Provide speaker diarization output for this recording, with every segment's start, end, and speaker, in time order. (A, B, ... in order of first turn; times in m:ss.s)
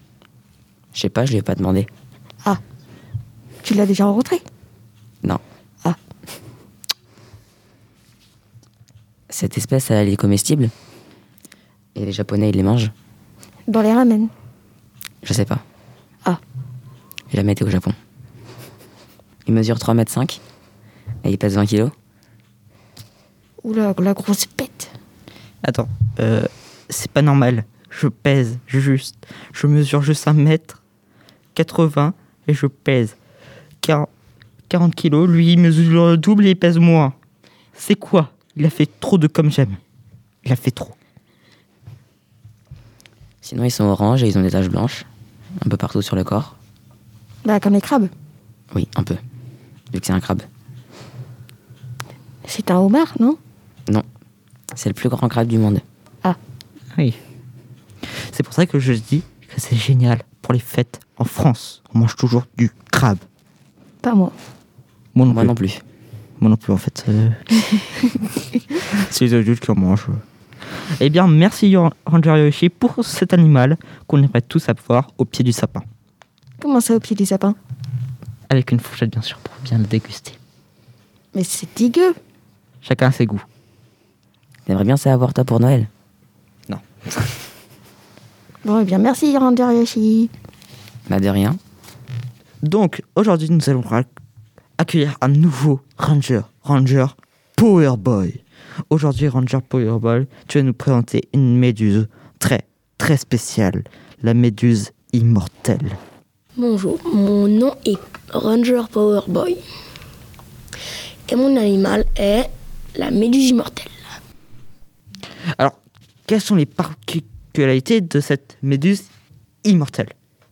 0:00.9-0:01.9 A
0:03.6-0:04.4 B
0:09.3-0:10.7 A
0:11.9-0:12.9 A
0:13.7-0:14.3 B
0:15.2-0:15.6 A
0:17.3-0:18.0 A
0:19.4-0:20.4 A
0:21.2-0:21.9 A
0:23.6-0:24.9 B
0:25.6-0:30.8 C
0:31.5-0:33.2 C
0:33.8-0:34.1 C
0:34.7-0:37.1 C
0:37.8-0:39.8 C
0:40.4-0:40.9 C
0:43.4-0:46.6 A
0:47.4-0:48.1 B
0:48.7-0:49.2 A
0:49.9-0:50.5 A
0:52.4-0:53.4 B
0:54.7-0:55.8 A
0:58.3-1:03.2 C
1:04.0-1:04.3 B
1:05.1-1:05.5 C
1:05.3-1:05.8 A
1:06.4-1:10.2 C
1:11.0-1:15.8 C
1:16.6-1:17.6 B
1:18.5-1:20.4 C
1:21.3-1:22.2 B
1:22.8-1:23.4 C
1:24.6-1:25.9 A
1:28.6-1:30.3 B
1:31.1-1:31.6 A
1:32.6-1:34.1 C
1:34.8-1:46.0 C
1:46.6-1:49.6 D
1:51.3-1:53.9 D
1:55.6-1:59.1 C
1:59.6-2:00.1 C